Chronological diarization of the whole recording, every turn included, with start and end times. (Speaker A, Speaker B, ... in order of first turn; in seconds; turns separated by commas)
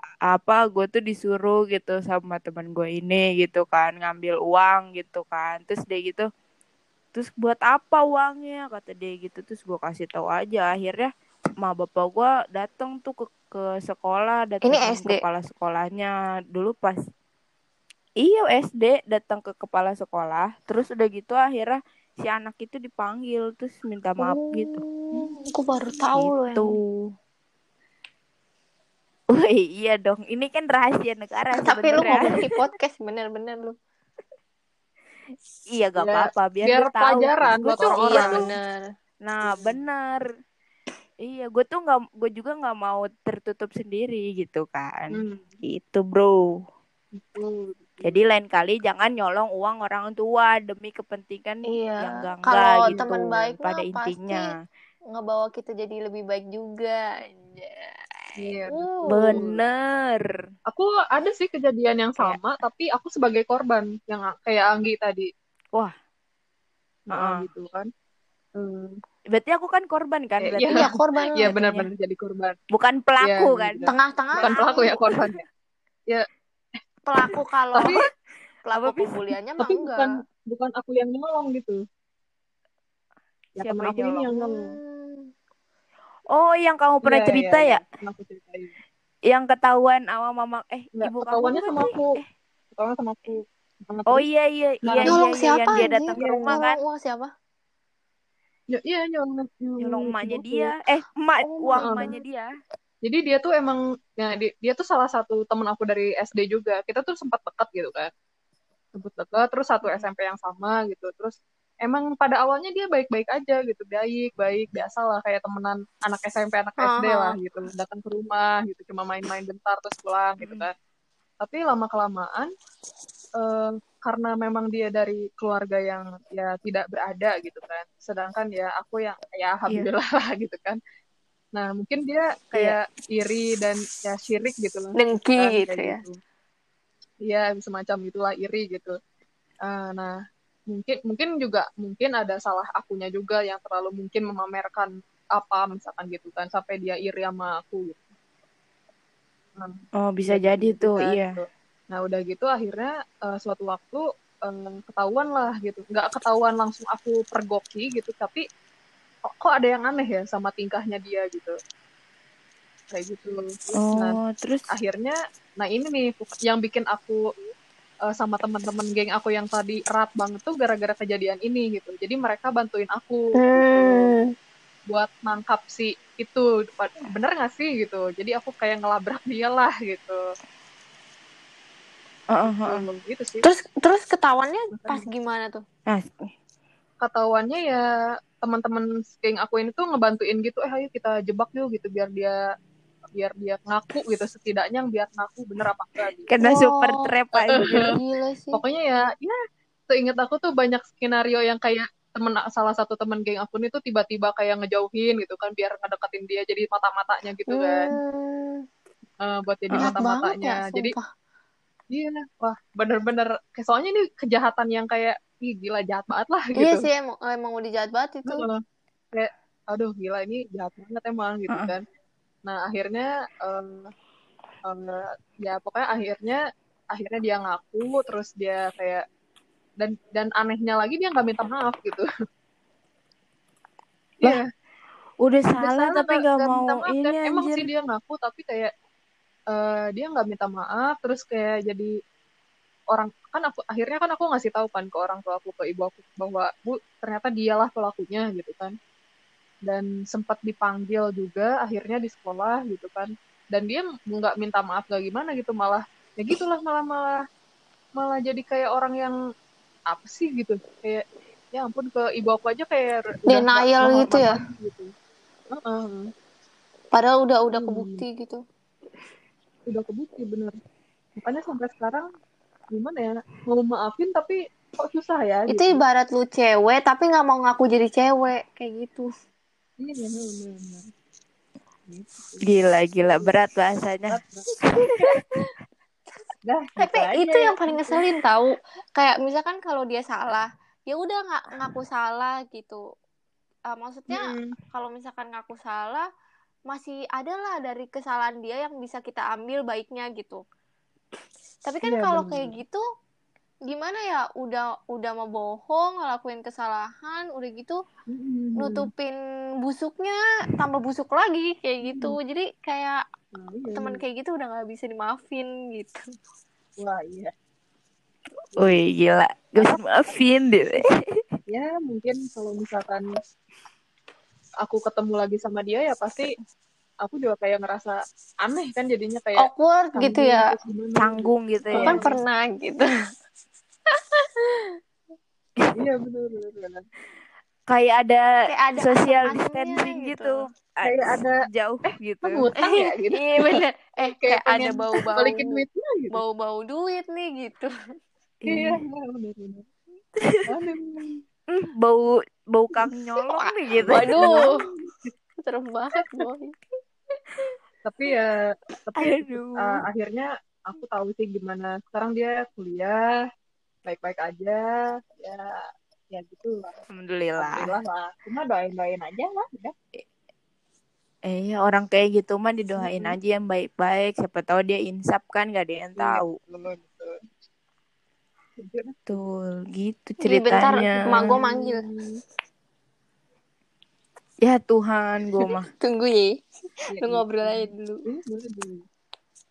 Speaker A: 0.3-6.3, Speaker A: 7.1-11.1, Speaker A: 11.6-17.0, Speaker B: 14.6-15.2, Speaker A: 18.2-24.8, Speaker B: 24.2-26.7, Speaker A: 26.1-27.1, Speaker A: 29.3-32.3, Speaker B: 31.6-33.8, Speaker A: 35.7-38.5, Speaker C: 36.0-38.5, Speaker B: 37.8-38.8, Speaker A: 39.2-40.2, Speaker C: 39.5-39.8, Speaker A: 41.2-46.4, Speaker C: 45.1-45.5, Speaker C: 47.1-48.2, Speaker A: 48.0-54.5, Speaker B: 51.7-54.5, Speaker B: 55.1-58.0, Speaker C: 58.4-59.6, Speaker B: 58.7-59.4, Speaker A: 59.1-60.3, Speaker C: 60.7-65.3, Speaker C: 67.1-67.9, Speaker A: 67.1-67.4, Speaker C: 68.6-69.0, Speaker A: 69.3-71.8, Speaker C: 70.4-72.6, Speaker B: 70.7-71.6, Speaker A: 72.7-75.3, Speaker C: 73.2-75.4, Speaker B: 73.9-75.0, Speaker B: 77.0-78.0, Speaker C: 77.7-78.0, Speaker B: 78.7-80.1, Speaker A: 78.7-79.1, Speaker C: 79.6-81.8, Speaker C: 83.6-84.7, Speaker A: 83.6-84.3, Speaker B: 84.3-85.3, Speaker A: 86.3-87.8, Speaker C: 87.0-88.7, Speaker A: 89.3-92.3, Speaker C: 91.0-92.2, Speaker C: 92.8-94.2, Speaker A: 94.1-96.8, Speaker C: 94.8-95.2, Speaker B: 95.0-97.3, Speaker C: 95.8-96.5, Speaker C: 98.7-100.7, Speaker A: 99.8-102.5, Speaker B: 101.4-102.2, Speaker C: 101.8-102.1, Speaker C: 103.0-108.1, Speaker C: 109.0-120.7, Speaker A: 109.8-110.1, Speaker B: 116.8-117.3, Speaker A: 120.4-120.7, Speaker C: 121.4-122.5, Speaker C: 123.4-130.8, Speaker C: 131.5-136.2, Speaker B: 135.0-136.0, Speaker C: 137.2-138.9, Speaker C: 139.6-140.2, Speaker C: 140.7-148.0, Speaker C: 149.6-158.4, Speaker A: 150.0-151.4, Speaker C: 159.3-161.6, Speaker C: 162.9-164.2, Speaker A: 163.8-164.6, Speaker C: 164.7-167.3, Speaker C: 168.1-174.1, Speaker B: 173.4-174.3, Speaker C: 174.9-180.2, Speaker A: 182.3-182.8, Speaker C: 182.6-183.4, Speaker B: 183.4-185.6, Speaker C: 184.7-185.0, Speaker A: 185.9-186.3, Speaker C: 187.0-187.8, Speaker C: 188.4-192.4, Speaker C: 193.2-196.3, Speaker A: 196.3-197.9, Speaker B: 196.4-198.6, Speaker C: 197.4-197.9, Speaker C: 198.5-199.4, Speaker C: 199.9-207.8, Speaker B: 207.5-208.6, Speaker C: 209.2-210.9, Speaker A: 209.7-210.0, Speaker B: 209.8-211.1, Speaker C: 211.9-216.9, Speaker B: 216.6-218.4, Speaker C: 218.3-218.6, Speaker C: 219.1-221.8, Speaker A: 221.5-221.7, Speaker C: 222.4-223.9, Speaker C: 224.7-226.4, Speaker C: 226.9-229.0, Speaker C: 229.8-232.1, Speaker C: 234.2-234.4, Speaker A: 235.2-237.7, Speaker C: 235.6-238.7, Speaker C: 239.5-241.9, Speaker C: 242.9-248.7, Speaker C: 249.7-257.1, Speaker C: 258.0-259.1, Speaker C: 259.9-264.9, Speaker B: 263.3-264.4, Speaker C: 265.5-266.1, Speaker B: 266.9-268.4, Speaker C: 267.5-268.0, Speaker C: 269.7-270.6, Speaker C: 271.2-272.1, Speaker C: 272.7-275.8, Speaker B: 275.5-279.1, Speaker C: 279.8-280.9, Speaker C: 281.9-282.5, Speaker A: 282.4-284.2, Speaker C: 284.1-284.5, Speaker A: 284.7-285.2, Speaker B: 284.8-285.5, Speaker C: 286.5-288.0, Speaker B: 286.8-292.8, Speaker B: 293.7-296.0, Speaker C: 294.1-294.6, Speaker B: 296.7-300.4, Speaker B: 301.6-302.8, Speaker C: 301.8-302.5, Speaker B: 303.7-307.8, Speaker C: 308.1-308.9, Speaker B: 308.6-313.0, Speaker C: 311.8-312.2, Speaker C: 313.3-314.0, Speaker B: 313.7-316.0, Speaker C: 316.8-317.3, Speaker A: 318.6-321.2, Speaker C: 321.5-323.1, Speaker C: 324.6-326.3, Speaker C: 327.0-332.1, Speaker B: 329.4-330.5, Speaker A: 331.0-332.0, Speaker B: 331.8-332.9, Speaker B: 333.9-334.7, Speaker C: 335.7-336.8, Speaker A: 337.7-342.5, Speaker B: 338.5-340.4, Speaker C: 340.8-341.4, Speaker C: 341.9-346.2, Speaker B: 342.6-345.6, Speaker B: 346.1-347.7, Speaker A: 348.4-348.8, Speaker C: 348.5-349.6, Speaker A: 350.2-350.5, Speaker C: 350.5-351.2, Speaker A: 351.5-354.6, Speaker B: 353.4-354.5, Speaker C: 354.2-355.1, Speaker B: 355.4-356.5, Speaker C: 357.8-363.1, Speaker A: 359.0-359.8, Speaker C: 363.8-365.6, Speaker C: 366.1-366.8, Speaker A: 366.9-367.7, Speaker C: 367.4-369.7, Speaker A: 371.3-376.4, Speaker C: 372.8-373.1, Speaker C: 376.0-377.1, Speaker C: 378.6-379.0, Speaker A: 379.1-381.3, Speaker B: 380.2-381.8, Speaker C: 381.1-382.2, Speaker A: 384.4-385.7, Speaker B: 385.4-386.3, Speaker C: 386.9-388.8, Speaker B: 387.0-388.0